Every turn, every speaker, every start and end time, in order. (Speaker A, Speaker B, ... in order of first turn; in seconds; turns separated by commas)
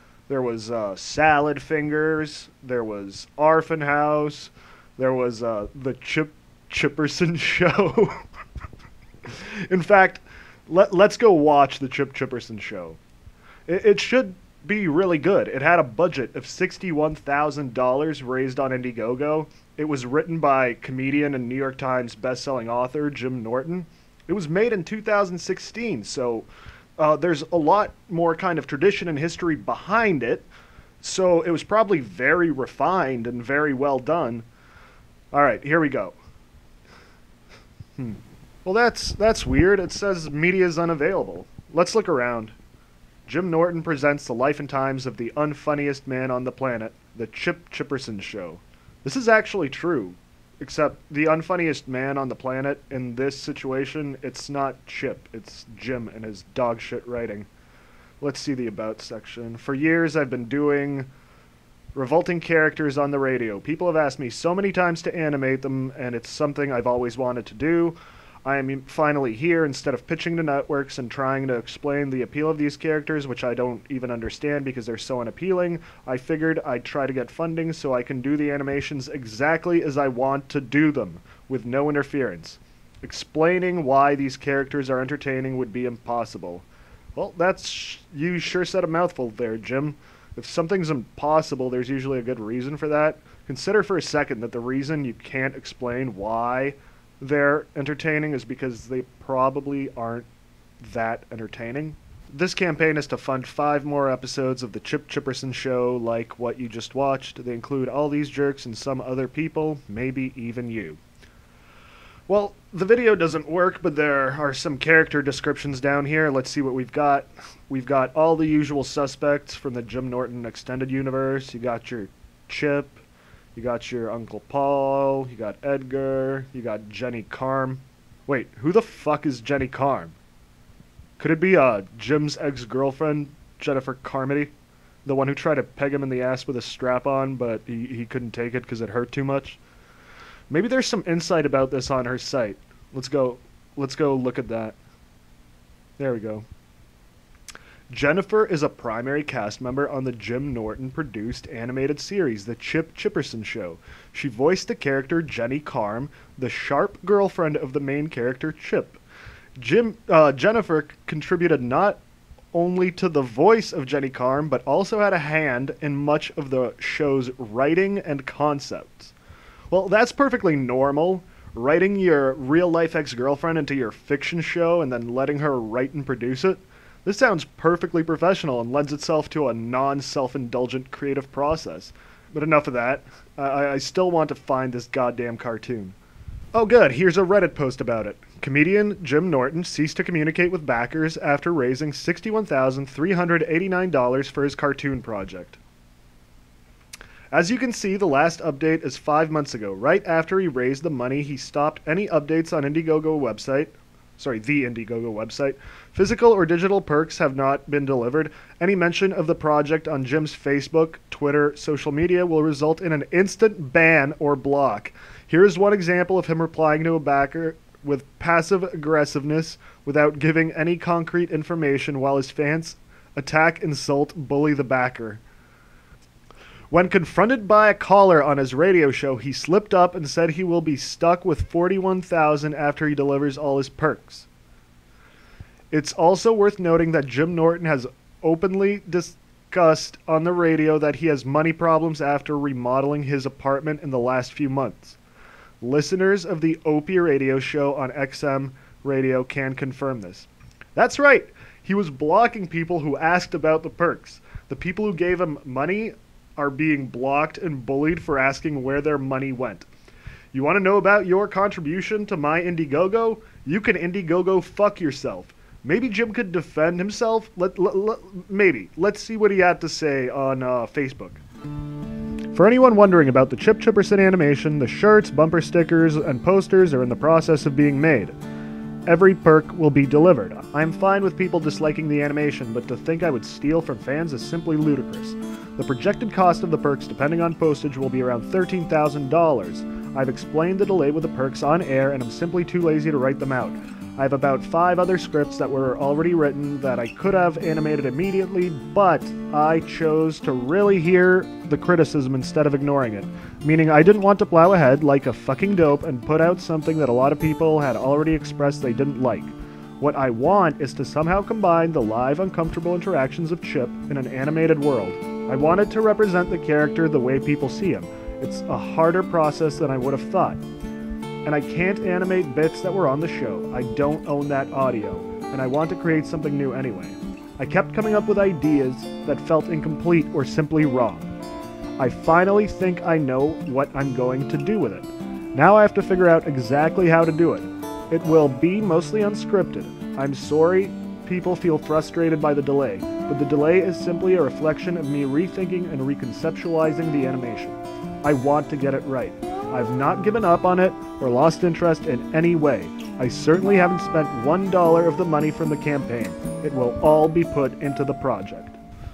Speaker A: 0.3-8.2, Speaker A: 9.3-13.0, Speaker A: 13.7-26.5, Speaker A: 27.0-30.5, Speaker A: 31.0-34.5, Speaker A: 35.3-36.2, Speaker A: 38.0-42.5, Speaker A: 43.3-57.5, Speaker A: 58.2-61.1, Speaker A: 61.9-100.3, Speaker A: 100.8-111.0, Speaker A: 112.3-123.0, Speaker A: 123.5-130.1, Speaker A: 131.2-134.5, Speaker A: 135.1-139.6, Speaker A: 140.5-144.8, Speaker A: 146.0-146.4, Speaker A: 147.9-159.0, Speaker A: 159.6-162.0, Speaker A: 162.5-169.1, Speaker A: 169.7-185.9, Speaker A: 186.5-195.6, Speaker A: 197.3-225.2, Speaker A: 226.7-234.3, Speaker A: 235.7-245.0, Speaker A: 245.6-259.7, Speaker A: 260.3-271.2, Speaker A: 272.3-278.1, Speaker A: 278.9-320.4, Speaker A: 321.2-331.1, Speaker A: 331.8-358.6